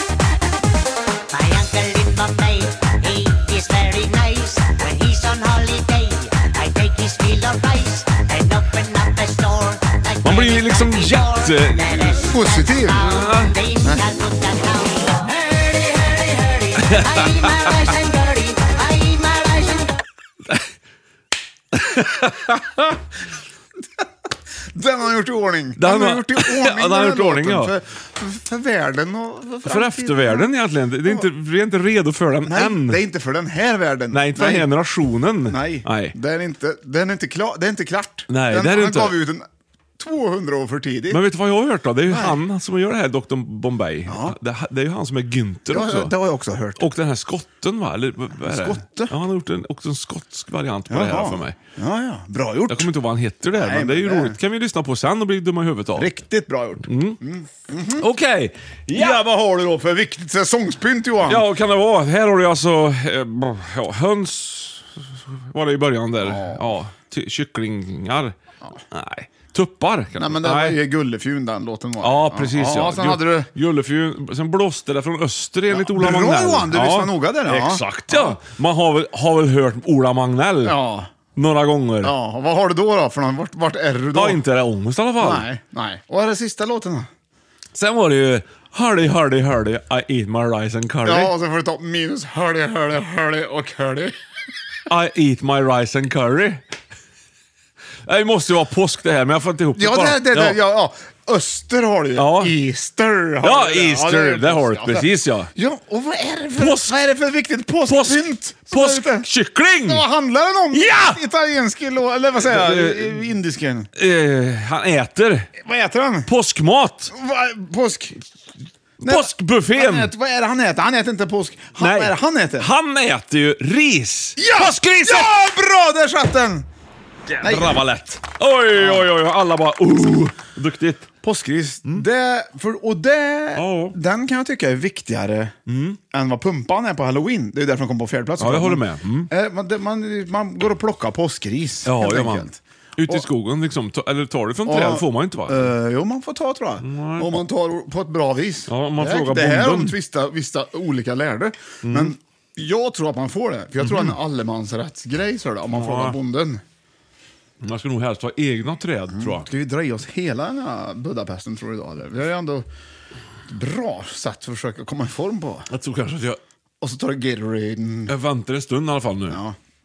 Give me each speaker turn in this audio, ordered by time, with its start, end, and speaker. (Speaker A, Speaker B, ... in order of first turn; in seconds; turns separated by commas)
Speaker A: 1.3-19.9, Speaker B: 10.2-12.3, Speaker C: 12.2-13.1, Speaker B: 13.0-13.6, Speaker B: 16.9-17.5, Speaker B: 21.7-22.9, Speaker C: 24.7-30.5, Speaker B: 25.8-27.7, Speaker B: 29.6-33.0, Speaker C: 32.5-34.7, Speaker B: 34.1-36.2, Speaker C: 35.5-39.5, Speaker B: 38.3-39.2, Speaker C: 40.0-41.2, Speaker B: 41.1-46.1, Speaker C: 42.1-42.4, Speaker C: 44.1-44.4, Speaker C: 45.7-46.8, Speaker B: 46.8-51.6, Speaker C: 48.4-49.1, Speaker C: 50.9-52.9, Speaker B: 52.7-56.1, Speaker C: 53.5-54.4, Speaker C: 56.0-58.1, Speaker B: 56.9-57.2, Speaker B: 58.0-59.2, Speaker C: 58.9-61.5, Speaker B: 61.2-68.3, Speaker C: 66.2-66.7, Speaker B: 68.9-70.8, Speaker C: 70.2-73.5, Speaker B: 72.0-80.8, Speaker C: 75.7-78.4, Speaker C: 80.6-81.1, Speaker B: 81.3-82.1, Speaker C: 82.0-84.4, Speaker B: 84.1-85.5, Speaker C: 85.2-87.1, Speaker B: 87.7-91.3, Speaker C: 91.0-94.2, Speaker B: 94.9-96.6, Speaker B: 98.1-100.6, Speaker C: 99.8-109.3, Speaker B: 102.2-102.5, Speaker B: 103.4-105.5, Speaker B: 106.6-107.0, Speaker B: 107.9-110.0, Speaker C: 109.8-113.9, Speaker B: 110.7-111.2, Speaker B: 112.4-113.3, Speaker B: 114.0-115.5, Speaker C: 115.6-116.3, Speaker B: 116.3-117.1, Speaker C: 117.1-118.2, Speaker B: 119.0-120.1, Speaker C: 119.0-122.7, Speaker B: 121.8-125.3, Speaker C: 124.4-126.7, Speaker B: 127.3-131.1, Speaker C: 127.4-127.8, Speaker C: 128.8-129.1, Speaker C: 131.2-135.6, Speaker B: 133.6-133.9, Speaker B: 135.7-136.0, Speaker C: 136.1-143.3, Speaker B: 138.4-139.3, Speaker B: 141.8-145.7, Speaker C: 144.7-156.6, Speaker B: 146.8-147.4, Speaker B: 148.7-149.9, Speaker B: 151.8-152.1, Speaker B: 153.8-154.2, Speaker B: 155.7-156.2, Speaker B: 157.6-159.5, Speaker C: 159.1-162.7, Speaker C: 163.5-165.7, Speaker B: 165.7-166.4, Speaker C: 166.8-168.1, Speaker B: 168.1-169.4, Speaker C: 169.3-169.6